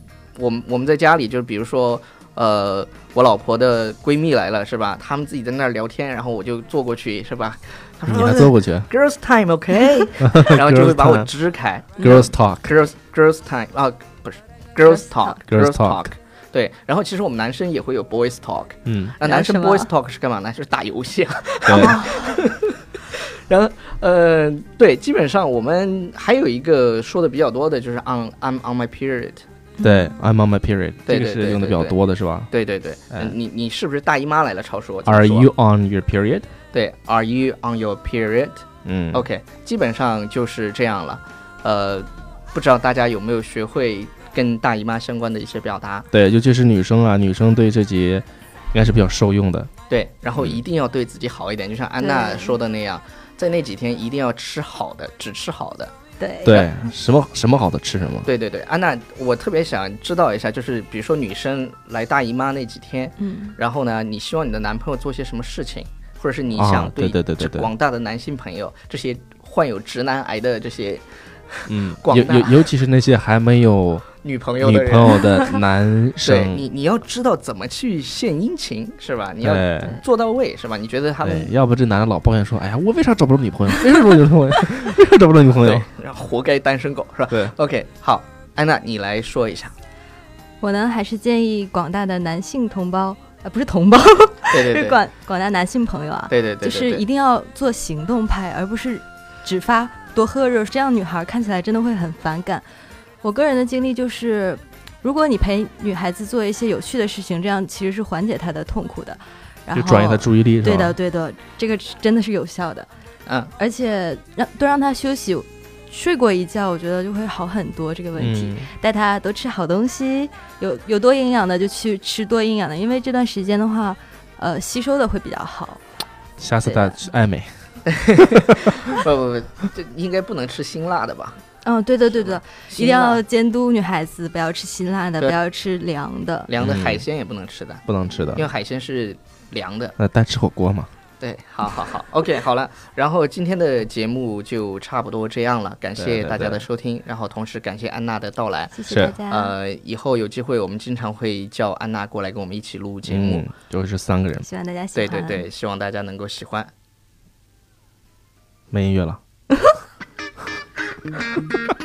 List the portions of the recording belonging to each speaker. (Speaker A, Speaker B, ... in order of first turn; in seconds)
Speaker A: 0.3-29.4, 31.1-32.0, 32.5-35.5, 36.7-46.1, 49.9-55.9, 58.2-72.7, 74.2-75.5, 76.2-81.5, 85.5-89.7, 94.5-95.0, 96.3-97.0, 113.2-113.5, 127.9-131.4, 132.1-133.2, 136.5-140.0, 141.2-153.5, 154.9-156.7
Speaker B: 8.1-8.9, 10.2-11.3, 12.0-12.7, 15.5-16.1, 18.9-19.1, 21.6-22.0, 29.8-32.5, 35.0-36.5, 38.8-39.2, 46.1-49.7, 56.4-58.3, 66.5-67.7, 71.7-74.1, 74.6-76.6, 79.4-80.0, 81.2-85.8, 87.3-87.5, 109.7-111.0, 118.2-118.7, 126.4-128.6, 136.6-137.0, 137.9-138.4, 140.0-140.9, 146.0-146.6, 148.9-149.2, 153.1-154.4, 158.7-159.2
Speaker C: 14.8-15.4, 19.2-19.9, 21.7-22.4, 29.8-30.1, 52.0-52.5, 56.2-56.7, 63.2-63.6, 90.6-102.6, 103.2-112.9, 113.6-125.8, 126.6-127.0, 131.6-136.5, 148.7-149.5, 154.4-155.5